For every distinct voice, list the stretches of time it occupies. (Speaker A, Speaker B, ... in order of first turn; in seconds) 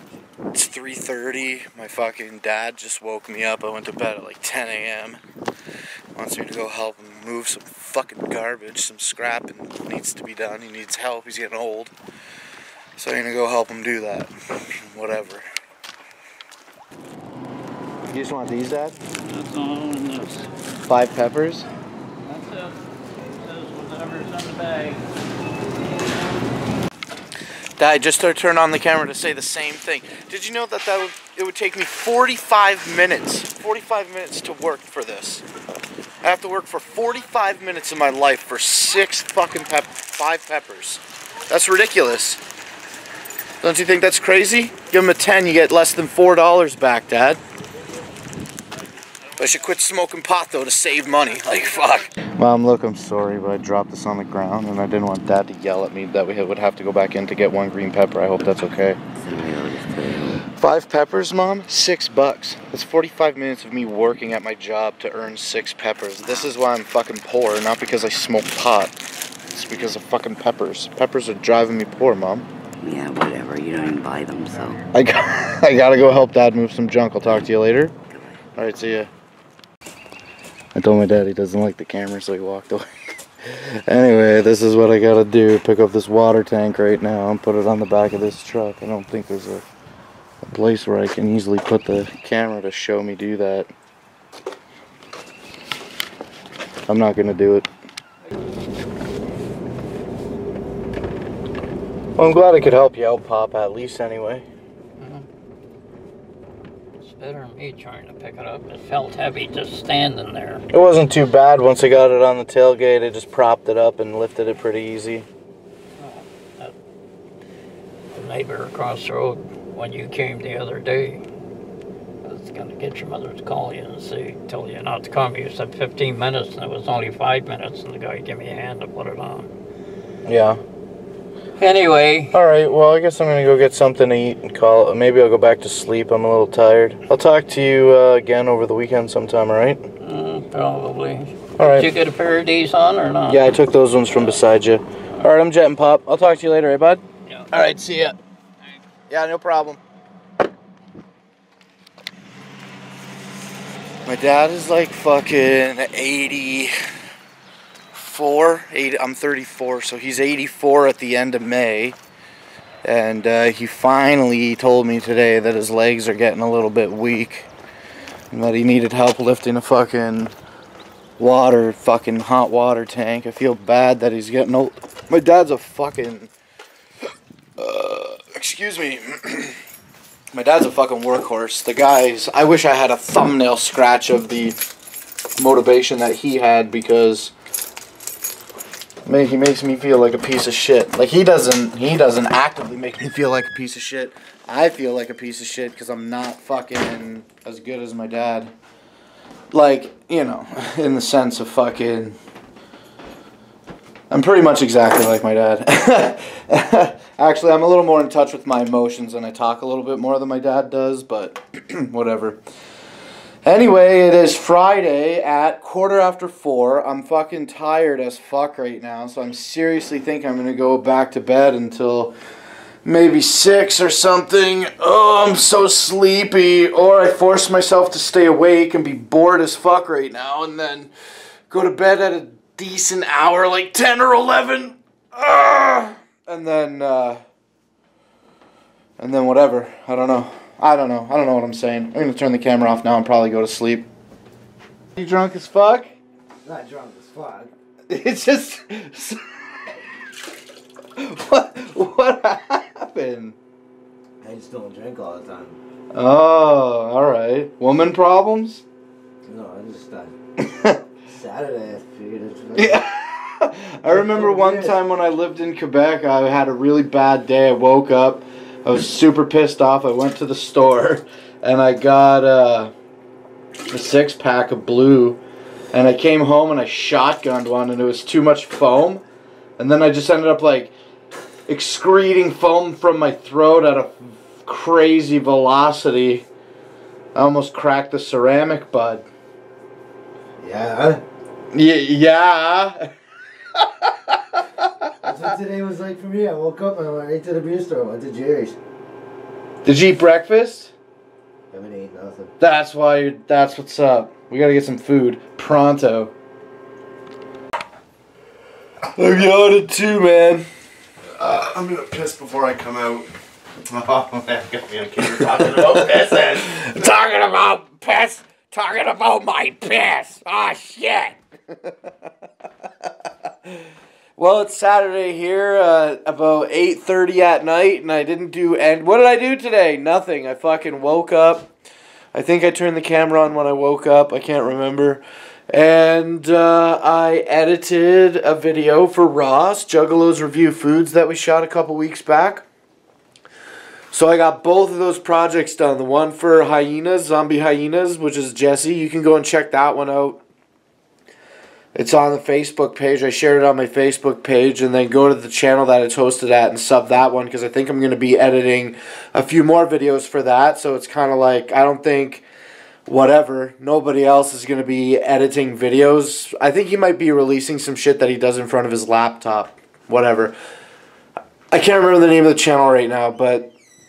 Speaker A: 0.5-5.2, 6.2-11.9, 13.0-15.4, 18.1-19.0, 20.8-21.7, 27.8-35.5, 36.2-42.4, 43.6-47.4, 49.4-59.0, 60.5-69.0, 69.5-72.5, 74.9-77.9, 78.6-79.1, 80.8-82.9, 83.5-89.7, 90.4-93.7, 96.9-97.7, 102.2-104.5, 110.7-115.3, 130.2-130.6, 132.3-139.8, 141.6-141.9, 143.3-148.2, 149.1-149.8, 154.1-156.8, 157.9-162.0, 162.8-167.5, 168.3-170.3, 171.2-176.3, 177.6-179.6, 180.3-184.6, 185.4-187.3, 189.1-198.5, 199.5-202.2, 204.1-212.4, 213.4-222.2, 222.8-230.9, 231.5-237.2, 239.0-243.9, 245.0-245.9, 247.9-249.6, 251.0-253.4, 255.9-258.6, 260.4-260.8, 262.6-272.7, 273.7-275.2, 275.7-279.0, 279.6-280.7, 281.5-286.2, 287.1-289.1, 291.5-292.9, 293.6-294.7, 299.6-300.7, 302.4-306.1, 308.9-310.5, 315.1-321.9, 324.2-331.5, 332.1-342.4, 343.9-350.2, 351.7-362.2, 362.9-370.4, 371.5-373.5
Speaker B: 19.2-20.5, 22.3-25.0, 105.0-105.2, 107.0-110.6, 116.0-116.7, 118.1-121.2, 122.2-129.5, 131.6-132.3, 140.0-143.5, 144.1-144.4
Speaker C: 59.2-60.4, 72.8-74.8, 78.1-78.4
Speaker D: 246.4-247.5, 254.2-255.6, 259.3-260.1, 261.0-262.8, 263.9-264.7, 290.4-291.0, 295.0-298.6, 301.5-302.3
Speaker E: 311.2-313.1, 313.7-316.6